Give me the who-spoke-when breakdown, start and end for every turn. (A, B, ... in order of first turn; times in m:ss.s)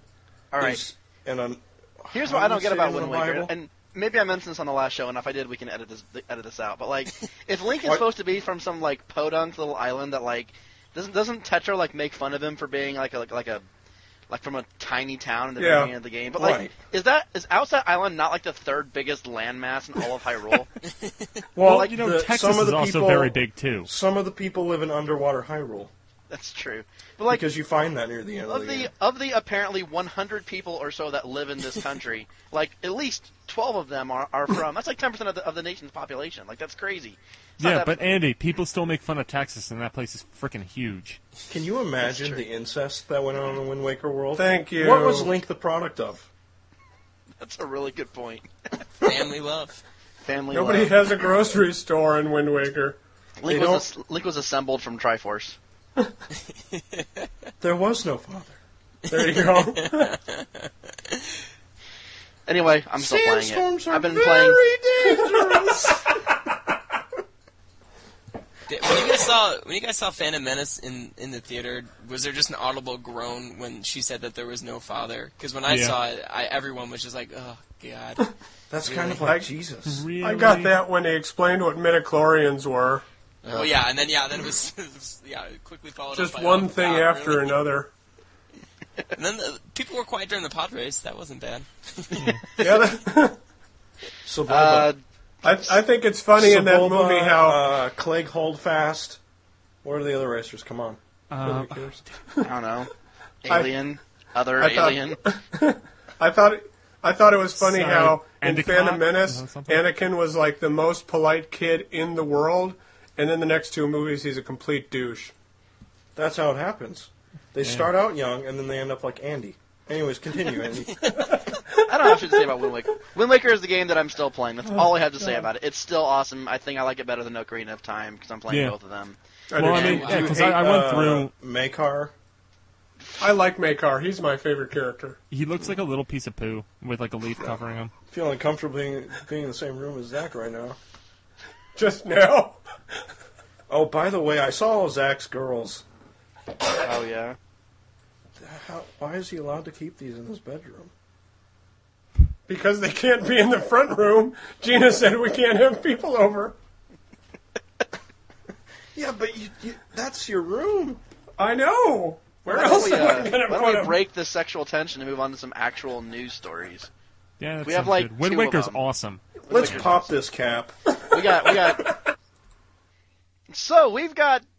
0:00.5-0:00.8 A
0:00.6-0:03.5 B
0:02.1-0:13.6 A
0:14.3-0:20.7 A
0:15.6-0:15.9 C
0:16.4-0:16.7 B
0:21.0-0:21.3 D
0:21.6-0:23.9 E
0:21.6-0:25.9 B
0:26.3-0:27.4 A
0:27.3-0:28.9 B
0:28.5-0:38.0 A
0:37.6-0:41.2 E
0:41.5-0:46.3 B
0:42.0-0:42.4 A
0:44.4-0:45.3 C
0:47.4-0:48.5 A
0:49.0-0:49.8 D
0:50.2-0:51.2 A
0:50.5-0:53.0 C
0:53.4-0:55.6 A
0:53.5-0:53.8 B
0:56.7-0:57.3 D
0:57.6-0:58.6 B
0:59.0-1:01.4 D
0:59.1-1:00.1 C
1:02.5-1:04.6 A
1:03.0-1:06.8 B
1:08.7-1:18.3 D
1:15.7-1:16.0 E
1:18.7-1:20.0 B
1:18.8-1:19.2 D
1:19.9-1:20.8 E
1:20.2-1:23.0 C
1:23.4-1:27.6 D
1:26.1-1:27.9 C
1:29.1-1:32.7 D
1:32.1-1:32.4 E
1:32.6-1:33.4 C
1:34.2-1:34.9 B
1:34.5-1:35.0 A
1:35.4-1:37.6 C
1:36.4-1:39.2 B
1:39.8-1:41.0 B
1:41.3-1:42.1 E
1:41.4-1:42.5 C
1:42.4-1:42.9 A
1:43.4-1:45.2 A
1:44.6-1:55.3 C
1:47.6-1:49.8 E
1:56.1-2:01.3 B
1:57.6-1:57.9 E
2:01.0-2:02.2 C
2:01.8-2:09.2 A
2:04.8-2:05.5 C
2:08.5-2:08.7 E
2:09.5-2:10.4 C
2:09.5-2:11.3 E
2:09.7-2:10.3 D
2:09.8-2:12.1 B
2:13.2-2:15.2 C
2:15.3-2:17.9 E
2:18.1-2:20.8 B
2:21.7-2:22.6 C
2:23.7-2:25.8 B
2:26.8-2:27.4 A
2:28.4-2:30.9 B
2:32.5-2:36.5 C
2:38.9-2:41.0 B
2:41.4-2:44.0 C
2:42.5-2:46.9 A
2:47.4-2:49.9 E
2:47.6-2:48.8 A
2:49.5-2:50.1 A
2:49.5-2:51.8 B
2:51.1-2:52.0 A
2:53.5-2:54.4 A